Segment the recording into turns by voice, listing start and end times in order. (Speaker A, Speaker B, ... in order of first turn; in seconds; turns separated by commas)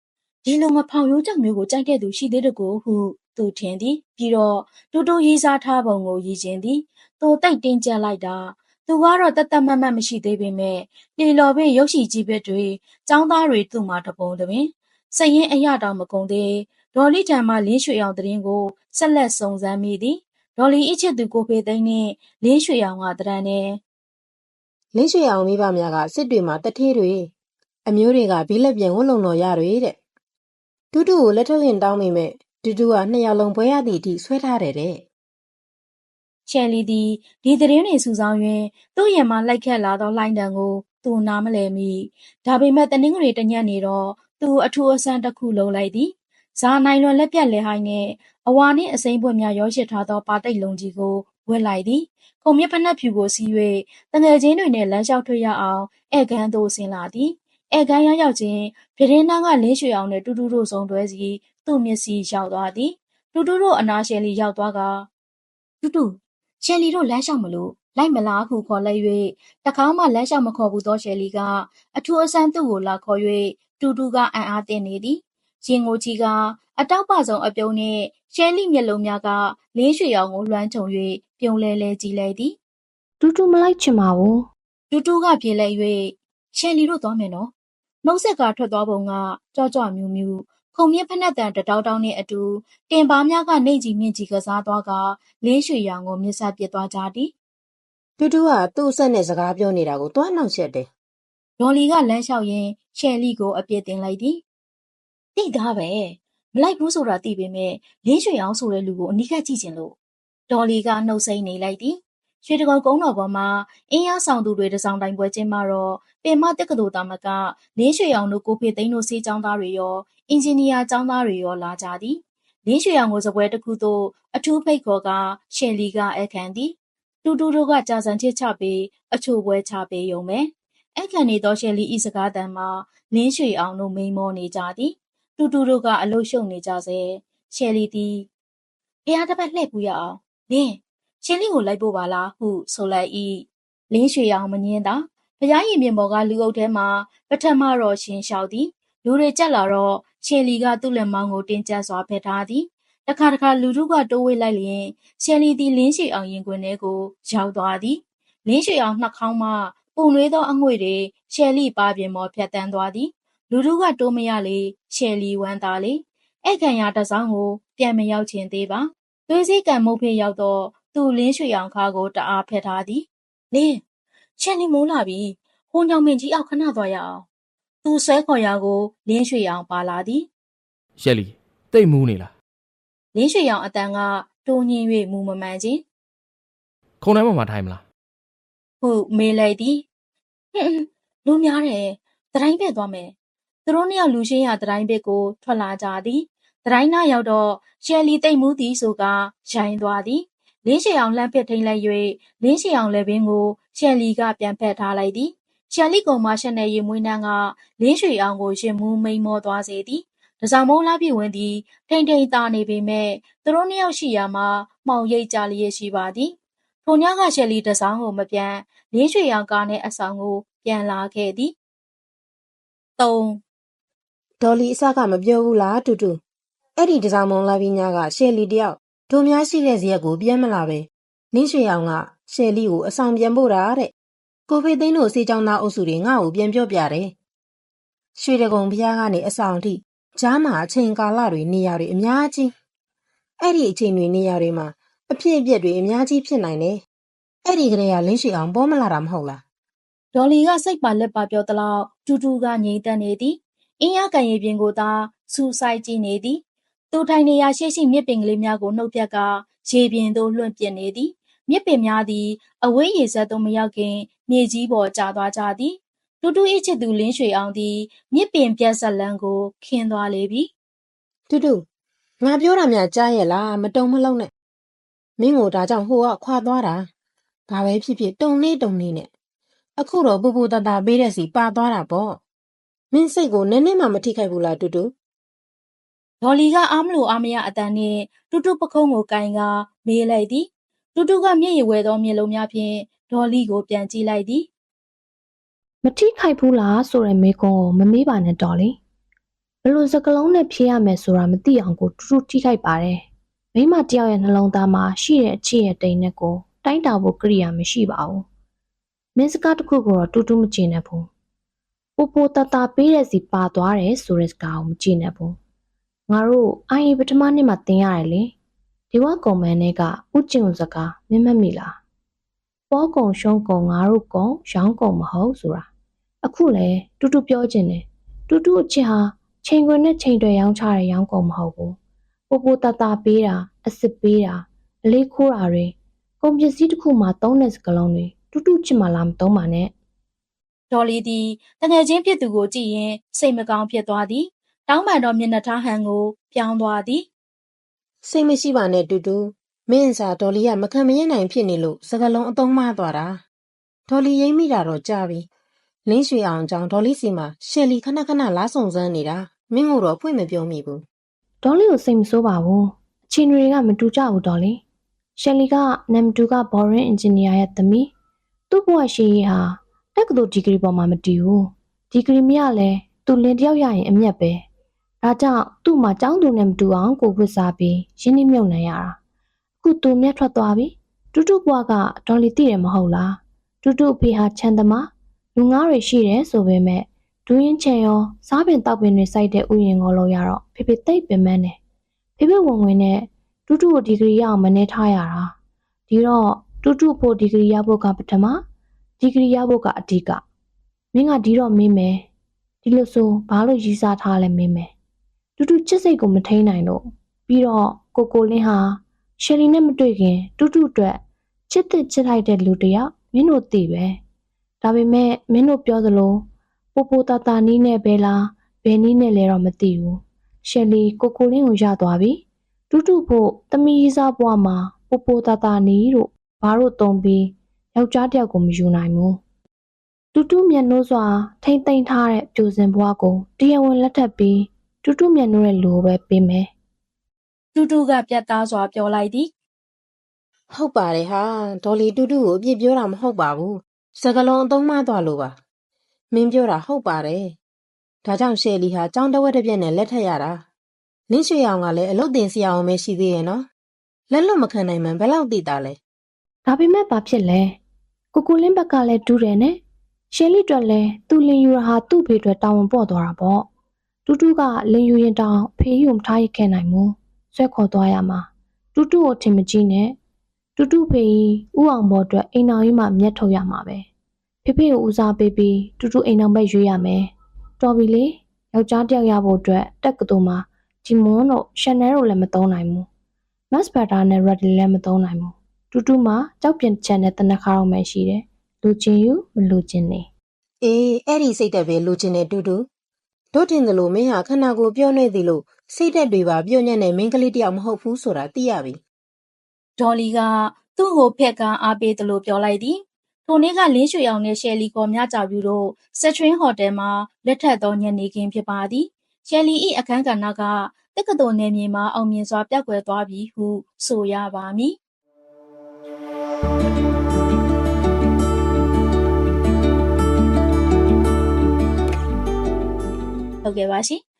Speaker A: 0.4-23.8, Speaker B: 24.9-27.3, Speaker B: 27.9-30.0, Speaker B: 30.9-35.0, Speaker A: 36.5-65.1, Speaker A: 65.8-82.5, Speaker C: 83.2-84.5, Speaker A: 84.9-87.5, Speaker A: 88.0-97.3, Speaker B: 98.2-100.9, Speaker A: 101.6-104.4, Speaker A: 105.3-109.9, Speaker A: 110.5-126.7, Speaker A: 127.2-138.3, Speaker A: 139.1-173.8, Speaker A: 174.4-177.2, Speaker A: 177.8-180.3, Speaker D: 181.0-182.3, Speaker A: 183.1-185.8, Speaker D: 187.0-187.8, Speaker A: 188.8-189.8, Speaker A: 190.5-193.1, Speaker A: 193.7-216.3, Speaker A: 216.8-221.5, Speaker A: 223.0-223.4, Speaker B: 224.4-226.2, Speaker B: 226.8-233.9, Speaker B: 234.5-237.1, Speaker B: 238.2-242.5, Speaker B: 243.4-246.8, Speaker B: 247.4-249.4, Speaker A: 250.1-256.4, Speaker A: 256.9-270.5, Speaker B: 271.3-271.6, Speaker B: 272.2-274.3, Speaker B: 275.2-276.9, Speaker B: 277.5-279.1, Speaker B: 279.8-282.2, Speaker B: 282.9-284.9, Speaker A: 286.2-294.5, Speaker C: 295.8-298.8, Speaker C: 299.6-303.0, Speaker C: 303.5-308.2, Speaker C: 309.1-311.1, Speaker C: 312.0-315.4, Speaker C: 316.1-318.3, Speaker C: 318.9-321.8, Speaker C: 322.7-325.7, Speaker C: 326.2-331.8, Speaker C: 332.3-339.7, Speaker A: 340.7-347.0, Speaker B: 348.0-353.2, Speaker B: 353.9-355.2, Speaker B: 355.9-360.8, Speaker C: 361.4-364.6, Speaker C: 365.1-367.9, Speaker C: 368.5-374.4, Speaker C: 375.0-379.0, Speaker C: 379.6-391.6, Speaker C: 392.2-395.3, Speaker C: 395.9-398.4, Speaker C: 399.0-400.2, Speaker C: 400.9-402.1, Speaker C: 402.6-404.7, Speaker C: 405.4-414.0, Speaker C: 414.6-429.2, Speaker C: 430.1-436.5, Speaker A: 437.5-439.3, Speaker B: 440.5-445.3, Speaker B: 446.1-447.4, Speaker B: 448.0-450.4, Speaker B: 451.1-453.5, Speaker B: 454.1-455.8, Speaker C: 456.4-457.6, Speaker C: 458.1-463.5, Speaker C: 464.1-470.0, Speaker C: 470.6-473.9, Speaker C: 474.4-482.9, Speaker C: 483.5-490.1, Speaker B: 490.6-492.6, Speaker B: 493.3-498.8, Speaker A: 499.8-514.8, Speaker A: 523.4-524.0